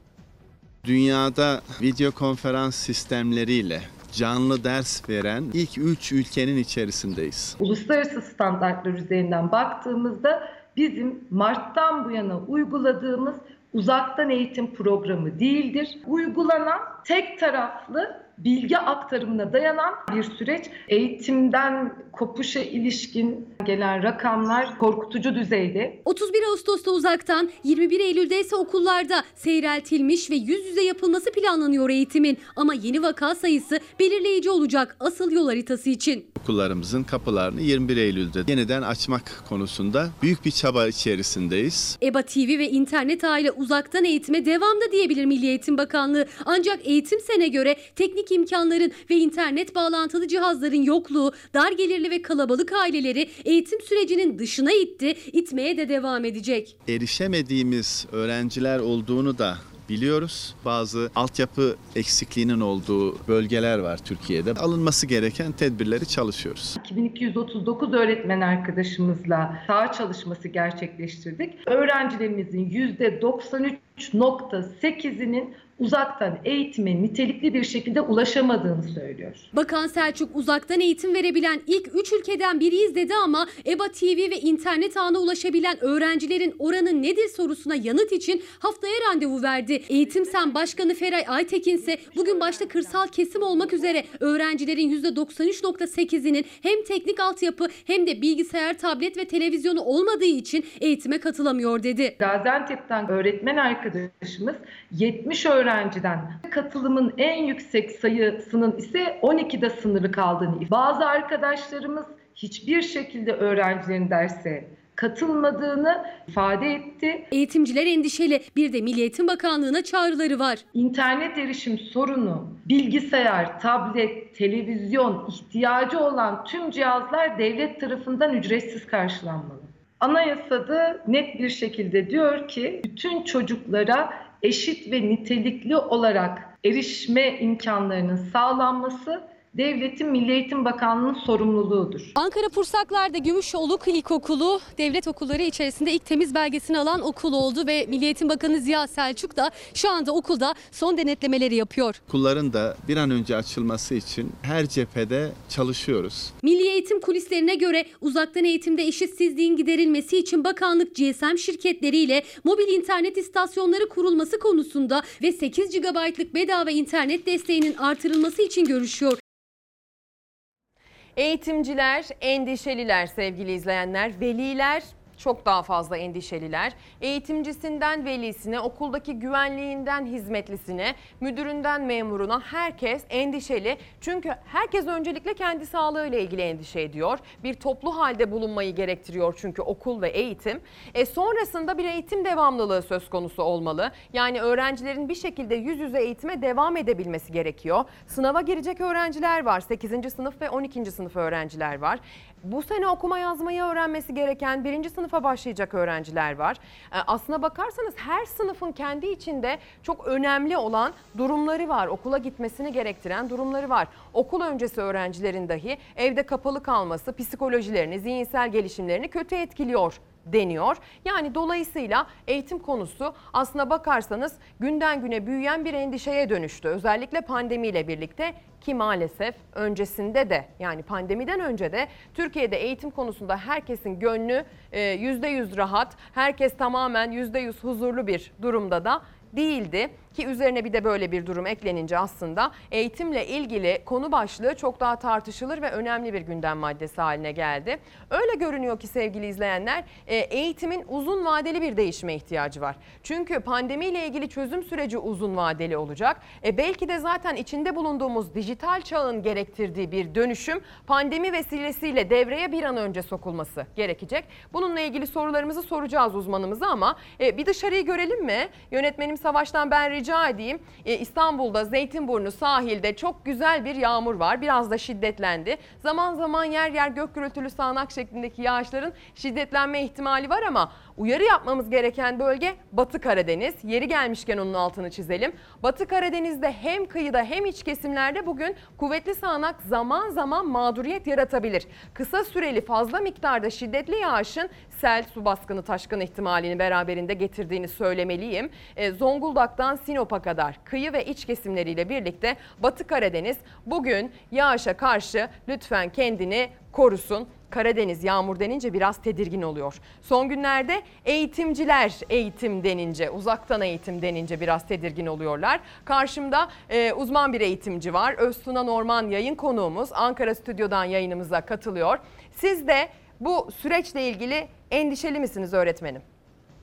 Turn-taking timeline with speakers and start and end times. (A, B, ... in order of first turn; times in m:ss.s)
0:00.8-0:07.6 A
0:07.6-0:26.0 B
0:26.0-0:36.3 C
0:36.4-0:42.0 A
0:42.0-0:56.7 C
0:56.9-1:06.8 A
1:06.8-1:19.5 B
1:19.5-1:42.1 C
1:42.2-1:57.2 B
1:57.3-2:00.6 C
2:00.7-2:22.1 B
2:22.2-2:32.0 C
2:32.1-2:36.3 A
2:36.4-2:49.2 C
2:51.2-5:26.0 D